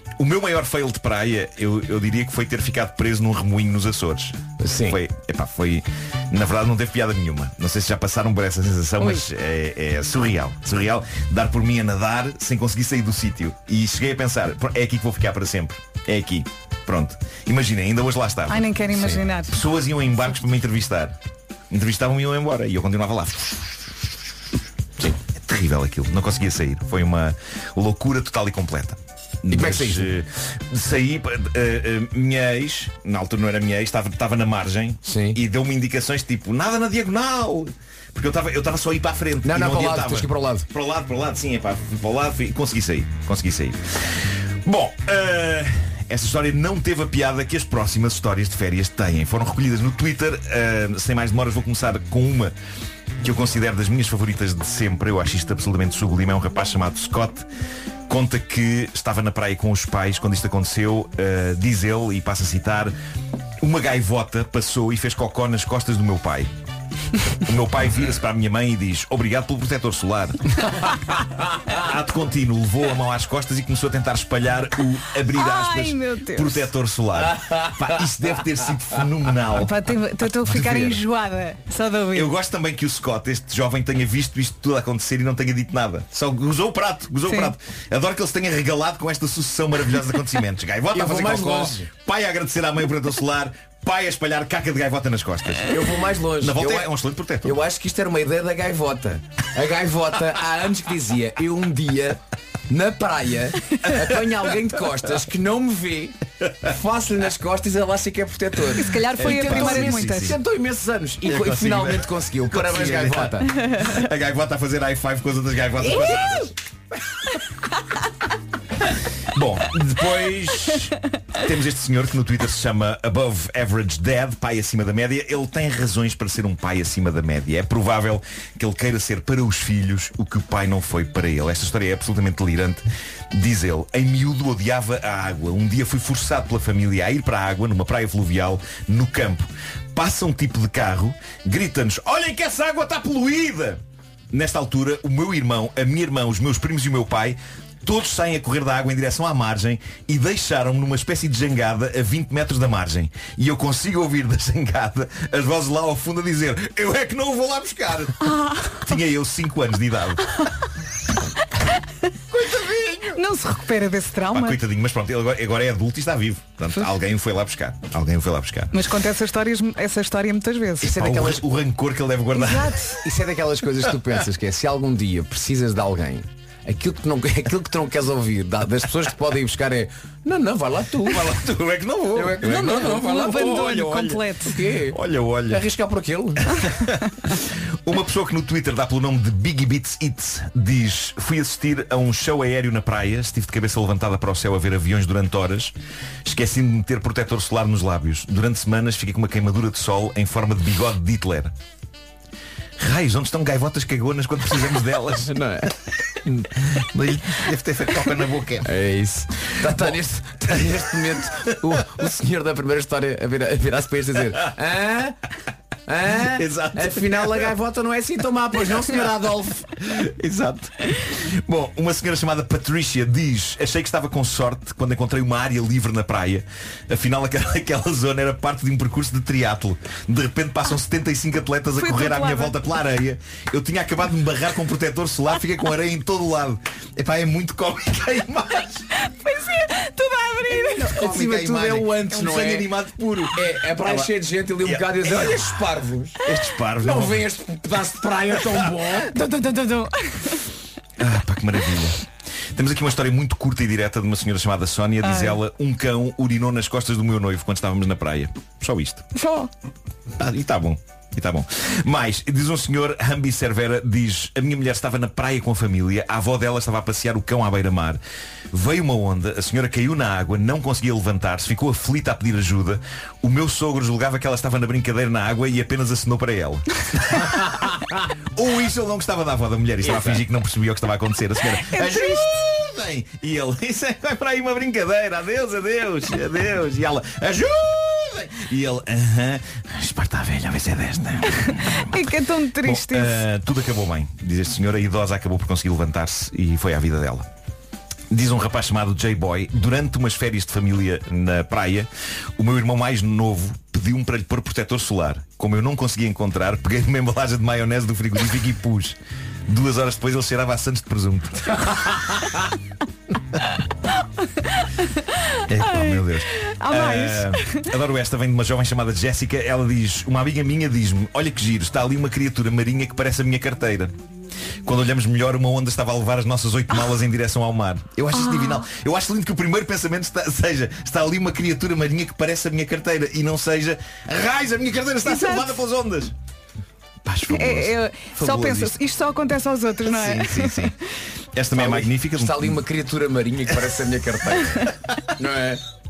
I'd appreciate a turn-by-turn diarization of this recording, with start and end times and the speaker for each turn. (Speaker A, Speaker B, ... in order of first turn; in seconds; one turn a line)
Speaker A: 0.2-18.7
Speaker B: 4.6-5.0
Speaker C: 18.5-19.6
Speaker B: 18.9-19.2
Speaker A: 19.5-21.1
Speaker A: 21.7-23.8
Speaker A: 25.0-52.5
Speaker B: 29.5-30.1
Speaker B: 35.0-35.4
Speaker B: 39.4-40.7
Speaker A: 53.2-57.5
Speaker A: 58.1-62.9
Speaker A: 63.6-66.5
Speaker A: 67.4-70.9
Speaker A: 71.7-79.8
Speaker C: 75.3-76.7
Speaker B: 77.3-78.0
Speaker C: 79.5-82.3
Speaker A: 80.3-81.0
Speaker A: 82.1-95.8
Speaker C: 87.3-87.5
Speaker B: 90.9-91.9
Speaker B: 95.7-96.9
Speaker A: 96.4-97.5
Speaker B: 97.4-113.5
Speaker C: 108.8-110.3
Speaker A: 109.1-110.4
Speaker A: 111.2-116.5
Speaker A: 119.3-143.8
Speaker A: 144.3-160.3
Speaker C: 158.2-158.8
Speaker A: 162.3-163.2
Speaker C: 163.1-164.6
Speaker A: 164.3-168.7
Speaker C: 168.7-170.9
Speaker B: 170.8-171.4
Speaker A: 170.8-172.8
Speaker C: 172.3-173.0
Speaker B: 173.0-181.3
Speaker A: 181.1-184.2
Speaker B: 182.1-183.8
Speaker C: 182.4-184.5
Speaker B: 184.4-185.0
Speaker A: 184.9-185.6
Speaker B: 185.5-186.7
Speaker A: 186.5-195.7
Speaker A: 196.2-201.5
Speaker A: 202.8-205.4
Speaker B: 205.3-205.7
Speaker A: 206.2-208.7
Speaker B: 208.7-215.2
Speaker A: 209.6-209.9
Speaker B: 215.9-219.7
Speaker A: 216.2-217.5
Speaker A: 219.8-238.8
Speaker C: 231.8-232.6
Speaker C: 239.0-240.9
Speaker B: 240.8-242.7
Speaker A: 240.9-244.1
Speaker B: 243.3-246.2
Speaker A: 244.6-245.5
Speaker A: 246.2-247.2
Speaker B: 246.8-249.1
Speaker C: 249.1-250.4
Speaker A: 251.0-252.0
Speaker A: 252.5-259.0
Speaker C: 255.0-255.4
Speaker C: 259.1-259.5
Speaker A: 260.2-268.0
Speaker A: 268.5-292.0
Speaker C: 281.6-282.5
Speaker C: 291.4-293.2
Speaker A: 292.6-297.3
Speaker A: 298.1-309.0
Speaker A: 309.5-312.4
Speaker C: 314.6-315.0
Speaker A: 315.5-323.9
Speaker C: 315.6-317.7
Speaker A: 324.6-336.1
Speaker C: 328.1-328.6
Speaker C: 335.0-335.6
Speaker A: 337.0-338.8
Speaker C: 337.3-340.7
Speaker A: 339.9-340.7
Speaker A: 341.3-342.6
Speaker B: 341.5-345.6